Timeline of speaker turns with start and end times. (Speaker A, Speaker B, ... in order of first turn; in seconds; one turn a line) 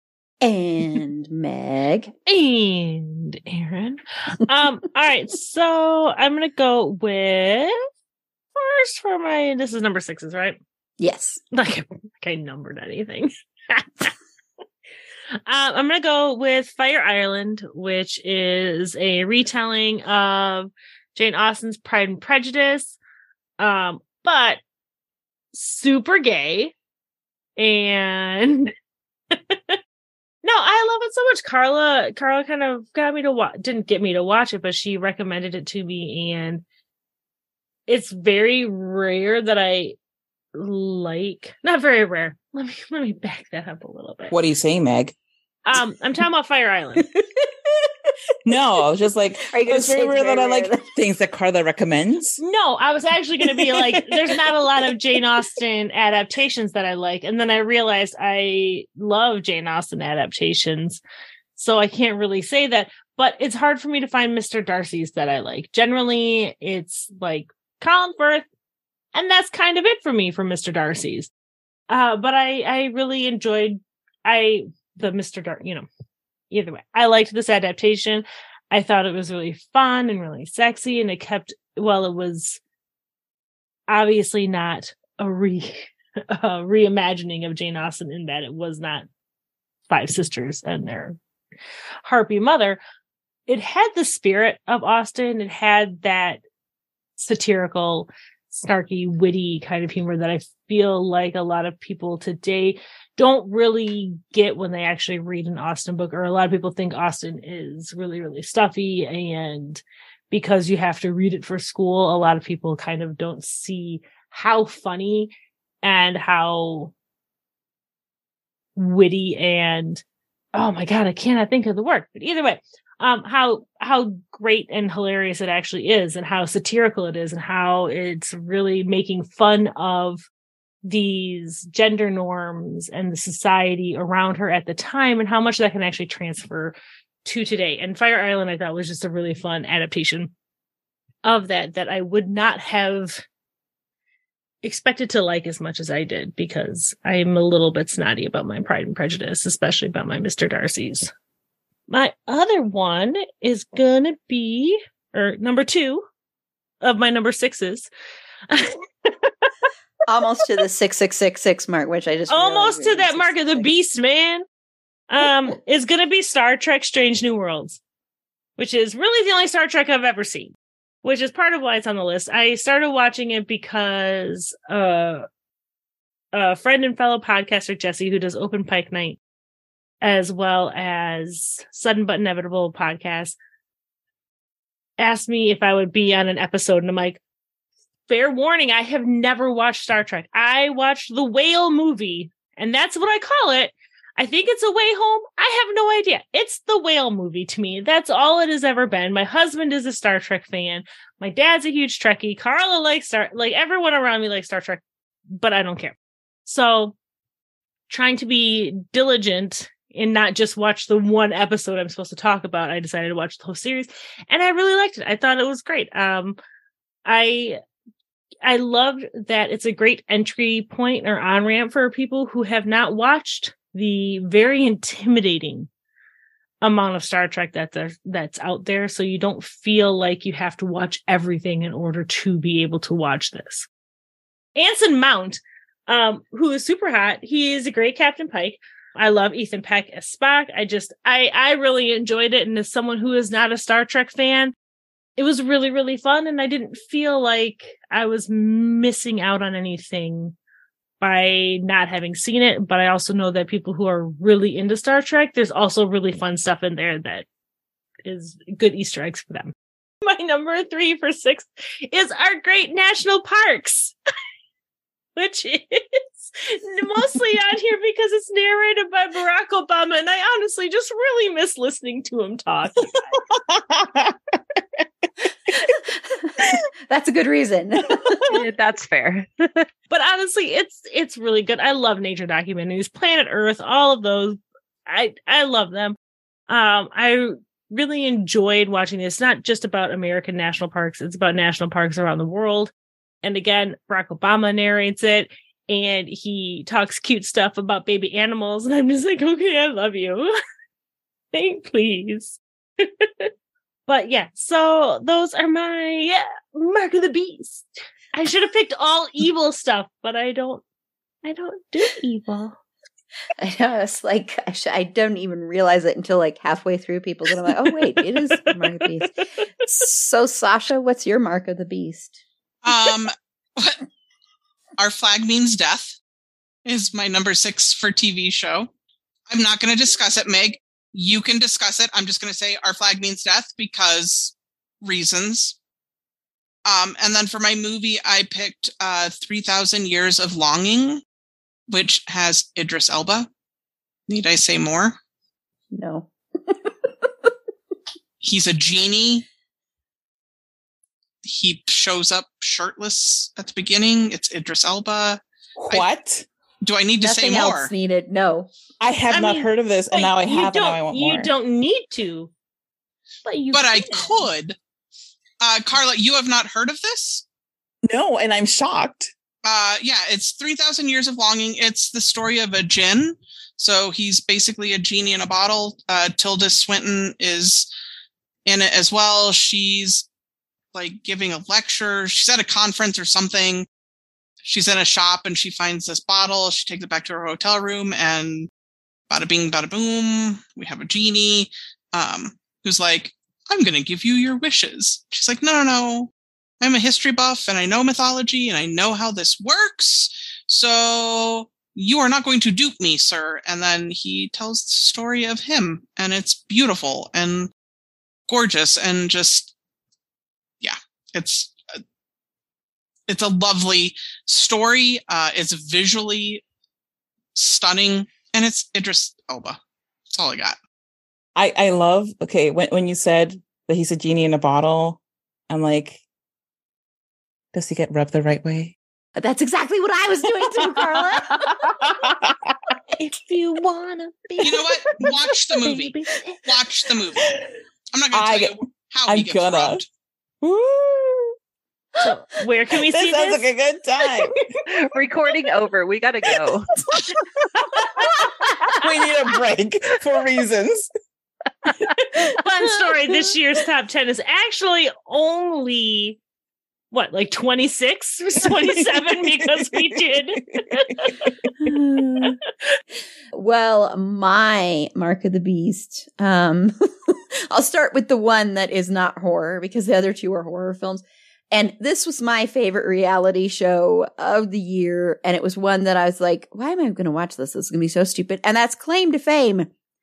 Speaker A: 0.4-2.1
Speaker B: 2.3-7.8
Speaker B: 8.6-10.6
Speaker A: 11.0-11.4
Speaker B: 11.5-14.1
Speaker B: 15.5-23.0
Speaker B: 23.6-24.6
Speaker B: 25.5-26.7
Speaker B: 27.6-28.7
Speaker B: 29.3-29.8
Speaker B: 30.4-36.6
Speaker B: 37.9-40.0
Speaker B: 40.5-44.4
Speaker C: 44.3-45.1
Speaker B: 45.7-47.1
Speaker C: 48.5-52.4
Speaker A: 49.5-50.8
Speaker B: 52.4-61.0
Speaker B: 61.6-68.5
Speaker B: 69.1-71.3
Speaker B: 71.9-75.9
Speaker B: 76.5-82.6
Speaker B: 83.9-89.1
Speaker B: 89.9-91.2
Speaker B: 92.0-92.8
Speaker B: 93.5-96.4
Speaker B: 97.2-115.3
Speaker B: 115.8-116.9
Speaker B: 118.8-120.0
Speaker B: 120.5-130.3
Speaker B: 130.8-140.3
Speaker B: 141.2-143.2
Speaker B: 144.6-151.1
Speaker B: 151.9-156.1
Speaker B: 156.8-157.9
Speaker B: 158.5-159.5
Speaker A: 160.1-163.7
Speaker B: 162.3-164.4
Speaker B: 165.1-167.8
Speaker B: 168.6-175.2
Speaker B: 176.3-179.2
Speaker B: 180.0-183.4
Speaker B: 185.0-187.2
Speaker B: 188.1-204.8
Speaker B: 205.3-206.9
Speaker B: 207.9-216.4
Speaker B: 217.1-217.6
Speaker B: 218.4-225.7
Speaker B: 226.6-233.7
Speaker B: 234.6-244.6
Speaker B: 245.2-250.4
Speaker B: 251.0-257.3
Speaker B: 258.1-263.9
Speaker B: 265.2-273.0
Speaker C: 273.3-274.6
Speaker A: 275.5-278.4
Speaker C: 278.0-278.3
Speaker D: 278.3-279.7
Speaker B: 279.9-286.0
Speaker B: 286.5-300.3
Speaker B: 301.3-303.3
Speaker B: 303.9-310.6
Speaker B: 311.2-312.6
Speaker A: 313.4-322.2
Speaker B: 318.0-318.9
Speaker E: 322.6-323.8
Speaker E: 324.8-326.0
Speaker E: 326.7-328.7
Speaker E: 329.3-335.6
Speaker E: 336.7-341.0
Speaker E: 341.7-343.3
Speaker E: 344.1-345.0
Speaker A: 345.7-346.1
Speaker E: 348.2-349.2
Speaker E: 351.2-355.9
Speaker C: 355.6-356.3
Speaker E: 356.6-357.7
Speaker A: 357.0-358.5
Speaker C: 358.8-361.3
Speaker B: 359.1-362.3
Speaker B: 363.2-364.3
Speaker E: 363.5-364.6
Speaker E: 365.4-367.2
Speaker C: 367.9-369.1
Speaker E: 369.4-377.7
Speaker E: 378.5-380.1
Speaker E: 380.7-383.7
Speaker E: 384.4-388.5
Speaker E: 389.1-407.5
Speaker E: 408.3-409.5
Speaker E: 410.6-411.5
Speaker E: 413.1-416.4
Speaker E: 417.4-419.6
Speaker E: 420.1-420.6
Speaker C: 421.4-426.0
Speaker C: 427.5-428.7
Speaker A: 429.2-431.7
Speaker C: 430.6-432.7
Speaker B: 433.0-436.4
Speaker E: 434.4-437.2
Speaker E: 437.9-439.8
Speaker C: 438.1-439.8
Speaker C: 440.4-441.4
Speaker B: 442.0-443.5
Speaker C: 442.8-444.3
Speaker D: 444.7-446.7
Speaker C: 446.3-450.9
Speaker B: 448.0-448.8
Speaker B: 452.0-456.2
Speaker B: 456.9-461.3
Speaker C: 458.6-461.3
Speaker A: 461.6-462.4
Speaker A: 463.3-479.7